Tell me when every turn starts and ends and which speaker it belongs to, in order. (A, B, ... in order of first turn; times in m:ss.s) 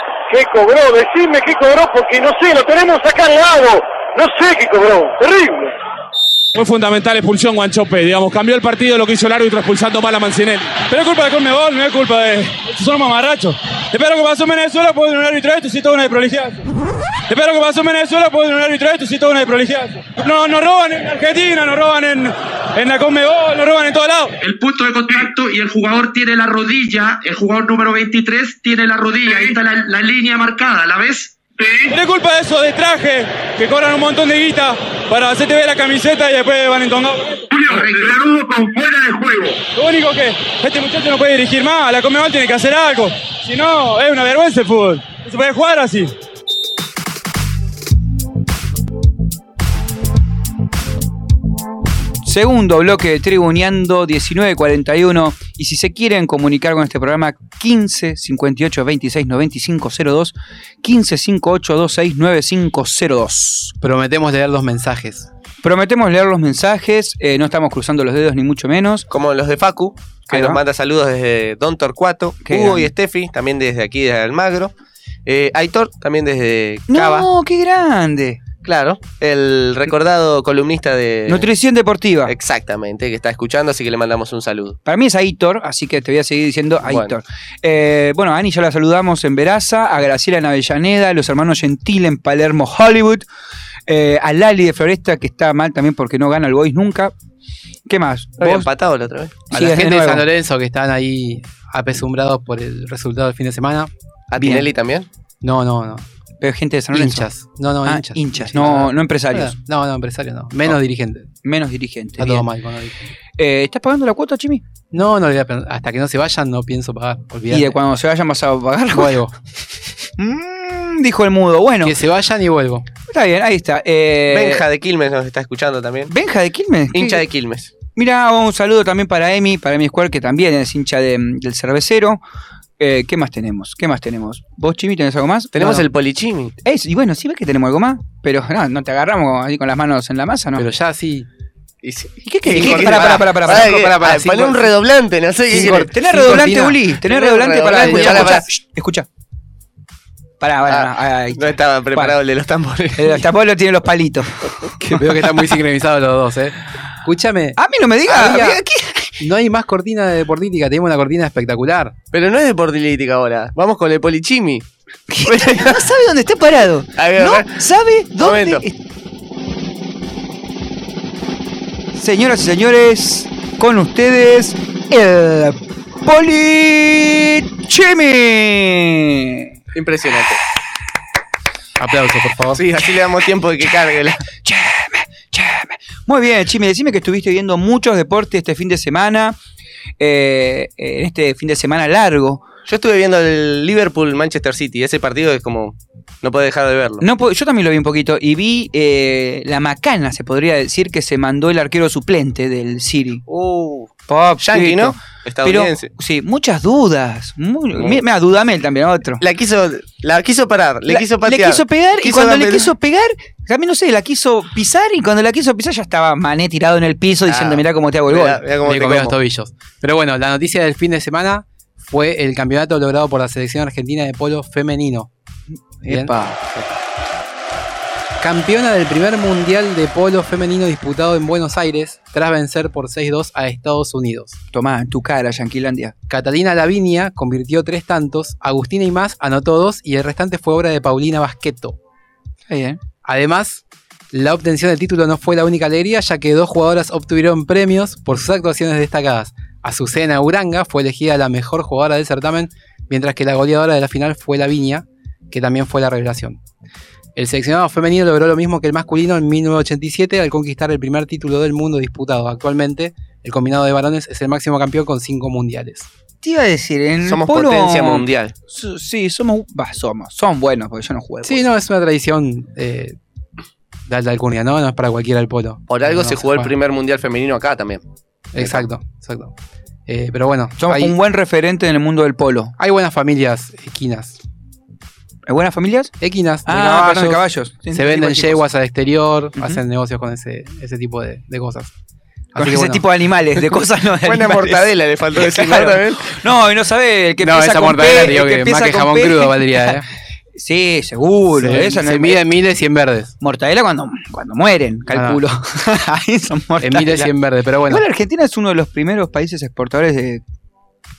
0:00.3-0:05.7 A
0:06.5-0:16.6 B
0:17.3-0:24.3 B
0:24.4-0:31.9 C
0:31.9-0:37.5 B
0:37.5-0:39.6 C
0:39.7-0:46.1 B
0:52.2-1:03.7 D
1:03.8-1:05.3 E
1:05.6-1:09.1 D
1:09.1-1:14.7 F
1:10.3-1:10.6 D
1:12.4-1:12.9 D
1:15.2-1:17.3 F
1:16.9-1:18.4 D
1:18.6-1:21.5 F
1:21.3-1:22.3 D
1:22.2-1:24.8 F
1:24.8-1:33.2 D
1:26.8-1:27.1 F
1:33.9-1:37.1 D
1:37.9-1:38.7 D
1:38.4-1:39.4 F
1:39.5-1:43.9 E
1:39.5-1:40.2 D
1:44.3-1:45.1 F
1:44.4-1:44.7 D
1:45.4-1:46.0 E
1:46.4-1:47.3 D
1:46.9-1:51.3 E
1:47.8-1:49.5 D
1:51.4-1:52.4 D
1:52.2-1:53.1 E
1:53.4-1:54.6 D
1:54.9-1:57.7 E
1:57.5-1:59.2 D
1:58.9-1:59.3 E
2:00.2-2:01.9 D
2:01.8-2:02.9 E
2:03.1-2:04.6 D
2:04.3-2:06.1 F
2:06.1-2:07.2 D
2:06.9-2:07.7 F
2:08.0-2:12.2 D
2:12.8-2:15.8 D
2:15.5-2:16.5 F
2:16.6-2:20.6 D
2:20.6-2:21.3 E
2:21.8-2:25.9 F
2:22.3-2:23.7 D
2:22.5-2:24.7 E
2:25.5-2:26.8 E
2:25.5-2:29.0 D
2:27.0-2:28.4 F
2:27.7-2:28.4 E
2:30.4-2:32.1 D
2:30.7-2:33.2 F
2:33.0-2:34.5 D
2:34.8-2:36.5 E
2:37.0-2:37.6 E
2:37.6-2:39.1 D
2:38.1-2:38.6 E
2:39.2-2:41.9 E
2:42.1-2:44.6 F
2:45.1-2:48.7 D
2:45.3-2:45.8 F
2:47.0-2:47.5 F
2:48.2-2:48.6 F
2:51.9-2:59.5 D
2:59.7-3:00.4 F
3:01.8-3:02.6 E
3:02.6-3:04.2 F
3:04.4-3:09.4 D
3:10.0-3:12.4 D
3:12.7-3:17.0 F
3:17.0-3:23.2 D
3:23.3-3:23.9 F
3:24.1-3:29.2 D
3:24.4-3:25.9 F
3:29.2-3:32.7 F
3:30.9-3:38.4 D
3:37.3-3:39.1 F
3:38.6-3:45.1 E
3:45.5-3:46.4 D
3:45.8-3:46.1 E
3:48.2-3:54.4 E
3:54.5-3:55.9 D
3:56.1-4:01.8 E
4:02.5-4:02.8 D
4:03.0-4:16.4 E
4:17.2-4:25.9 E
4:26.2-4:31.4 D
4:27.0-4:28.3 F
4:31.2-4:33.0 E
4:33.9-4:36.5 E
4:35.7-4:37.8 F
4:38.3-4:39.3 E
4:38.4-4:38.6 F
4:39.9-4:40.9 E
4:40.6-4:42.5 D
4:42.6-4:44.2 E
4:45.3-4:45.9 D
4:46.0-4:51.7 E
4:46.4-4:48.4 D
4:52.3-4:52.8 E
4:52.4-4:59.8 D
4:54.0-4:56.1 F
4:57.2-4:59.8 E
5:00.3-5:02.2 D
5:01.4-5:03.1 E
5:03.2-5:07.1 D
5:04.9-5:05.2 E
5:06.6-5:07.8 E
5:07.7-5:10.2 D